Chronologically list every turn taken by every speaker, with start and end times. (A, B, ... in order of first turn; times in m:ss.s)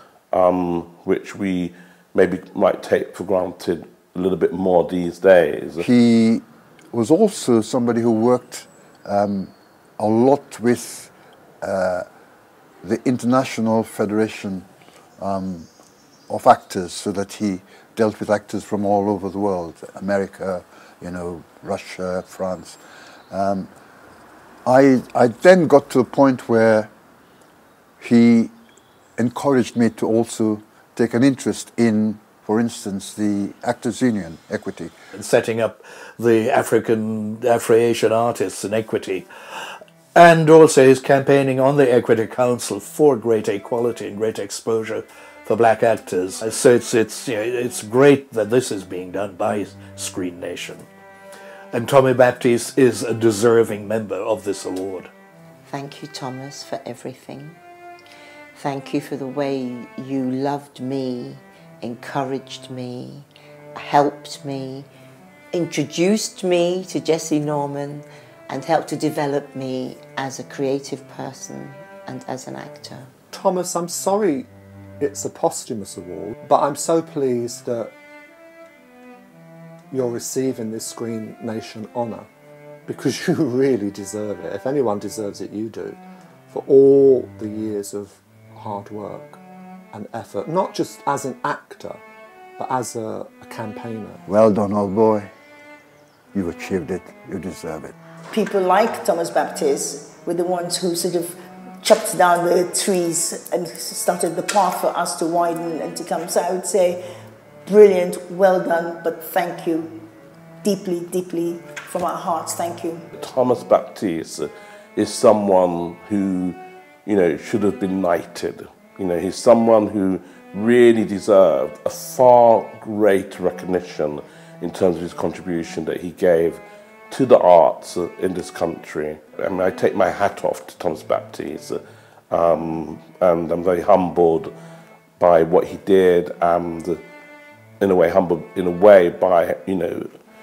0:00.3-0:05.8 A
0:05.8-0:12.0 B
0:12.8-0:14.7 B
0:15.2-0:15.7 B
0:16.3-0:22.8 B
0:23.3-0:23.7 B
0:24.6-0:26.9 B
0:28.0-0:28.5 B
0:29.2-0:34.9 B
0:35.1-0:39.3 C
0:40.1-0:50.8 C
0:51.7-0:55.1 C
0:55.7-0:57.6 D
0:58.6-1:03.2 D
1:03.8-1:04.8 D
1:05.5-1:13.1 D
1:13.3-1:14.5 E
1:15.0-1:17.9 E
1:19.9-1:22.3 E
1:22.9-1:26.0 E
1:26.5-1:29.4 E
1:29.9-1:32.0 E
1:32.6-1:34.2 E
1:34.3-1:35.3 B
1:36.3-1:37.9 B
1:38.3-1:47.0 F
1:47.6-1:50.0 F
1:50.6-1:53.0 F
1:53.2-2:11.8 A
2:12.3-2:14.5 A
2:15.2-2:17.0 A
2:17.8-2:20.1 A